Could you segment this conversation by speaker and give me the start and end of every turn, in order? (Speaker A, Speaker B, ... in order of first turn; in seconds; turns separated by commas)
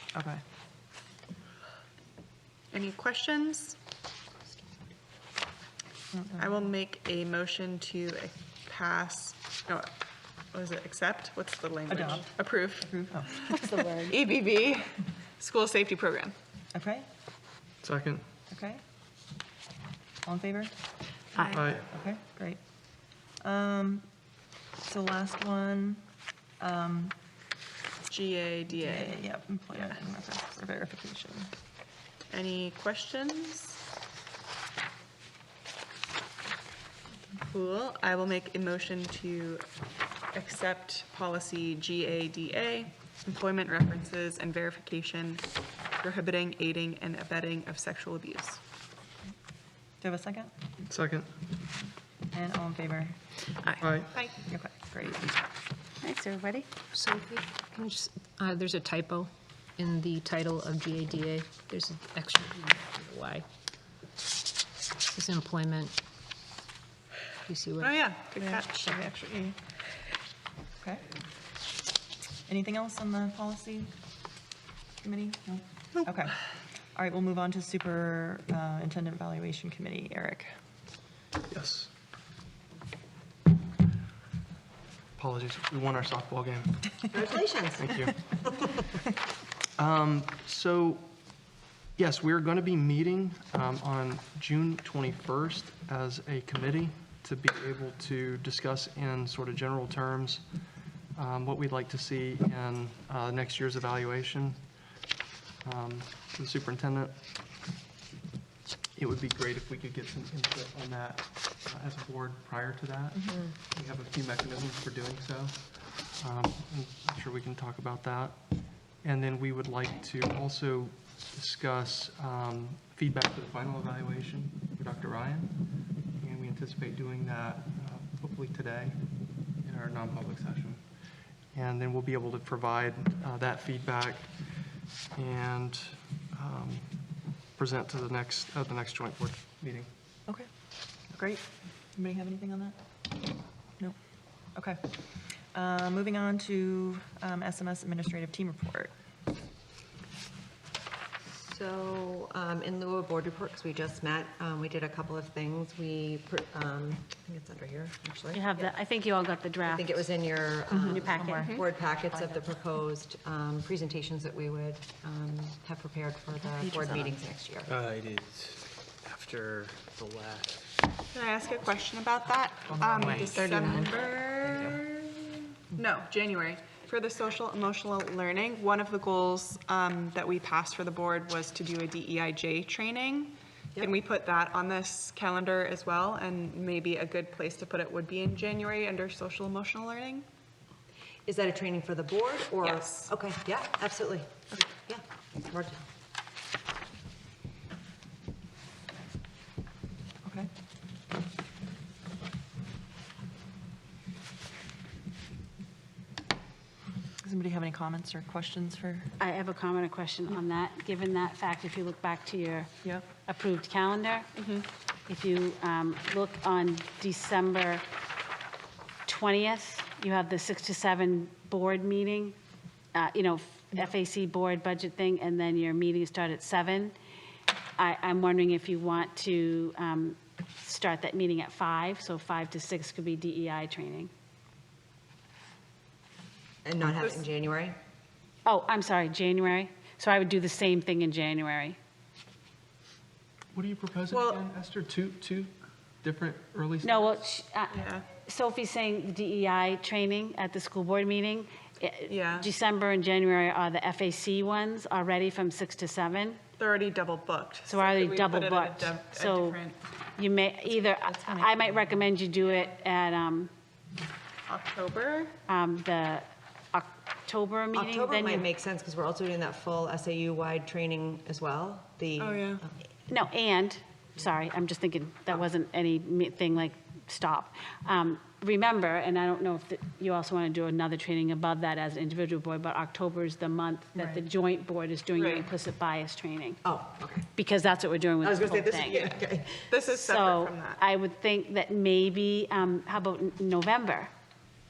Speaker A: 0.1-0.4, Speaker B: 2.7-3.8, Speaker A: 6.1-6.6, Speaker B: 6.4-9.9, Speaker B: 10.5-16.3, Speaker A: 11.9-13.8, Speaker C: 13.5-14.2, Speaker A: 16.7-17.1, Speaker D: 17.8-18.2, Speaker A: 18.5-18.8, Speaker A: 20.2-20.7, Speaker A: 21.5-22.6, Speaker D: 21.5-21.9, Speaker A: 23.4-24.0, Speaker A: 24.8-26.0, Speaker A: 26.6-27.1, Speaker B: 28.1-29.2, Speaker A: 28.7-31.5, Speaker B: 32.3-33.8, Speaker B: 37.4-39.6, Speaker B: 40.3-45.4, Speaker B: 46.0-48.6, Speaker A: 50.0-50.5, Speaker D: 50.9-51.3, Speaker A: 52.3-53.2, Speaker D: 53.8-54.1, Speaker B: 54.1-54.4, Speaker A: 54.5-55.3, Speaker C: 56.0-56.7, Speaker E: 56.9-63.5, Speaker E: 65.1-66.0, Speaker E: 67.5-68.1, Speaker B: 67.8-69.5, Speaker A: 68.5-69.0, Speaker A: 70.8-71.1, Speaker A: 72.5-73.9, Speaker A: 75.0-76.4, Speaker A: 76.9-80.5, Speaker D: 81.5-81.9, Speaker D: 85.2-87.0, Speaker F: 87.1-87.8, Speaker D: 87.7-88.3, Speaker D: 89.8-91.3, Speaker D: 92.0-100.5, Speaker D: 101.1-104.7, Speaker D: 105.6-107.2, Speaker D: 109.0-129.0, Speaker D: 129.6-130.8, Speaker D: 131.5-134.6, Speaker D: 135.1-139.9, Speaker A: 141.1-142.8, Speaker A: 144.5-148.9, Speaker F: 151.3-158.7, Speaker C: 158.3-160.1, Speaker F: 159.6-167.7, Speaker C: 160.7-161.6, Speaker A: 160.9-161.5, Speaker B: 161.4-161.6, Speaker G: 167.7-170.7, Speaker B: 171.1-174.8, Speaker F: 172.9-174.8, Speaker G: 172.9-173.8, Speaker B: 175.8-190.2, Speaker F: 191.2-195.8, Speaker B: 192.6-193.1, Speaker A: 200.2-200.5, Speaker A: 207.2-209.1, Speaker C: 209.2-214.3, Speaker B: 214.3-214.6, Speaker C: 215.1-217.8, Speaker C: 219.1-222.3, Speaker C: 222.9-226.9, Speaker C: 227.8-234.1, Speaker F: 236.6-237.8, Speaker B: 237.0-237.2, Speaker C: 238.4-241.8, Speaker D: 243.5-245.5, Speaker B: 244.1-244.4, Speaker D: 246.0-247.2, Speaker C: 246.8-256.4, Speaker B: 247.7-248.1, Speaker B: 252.1-252.5, Speaker B: 256.6-259.8, Speaker C: 257.7-259.6, Speaker C: 260.1-263.5, Speaker B: 261.1-261.7, Speaker B: 264.5-265.3, Speaker C: 265.5-268.5, Speaker F: 267.7-272.8, Speaker B: 272.2-272.6, Speaker C: 273.1-286.6, Speaker B: 285.1-285.5, Speaker F: 286.6-287.3, Speaker C: 287.3-289.0, Speaker F: 288.2-289.7, Speaker B: 288.8-290.8, Speaker C: 289.9-294.1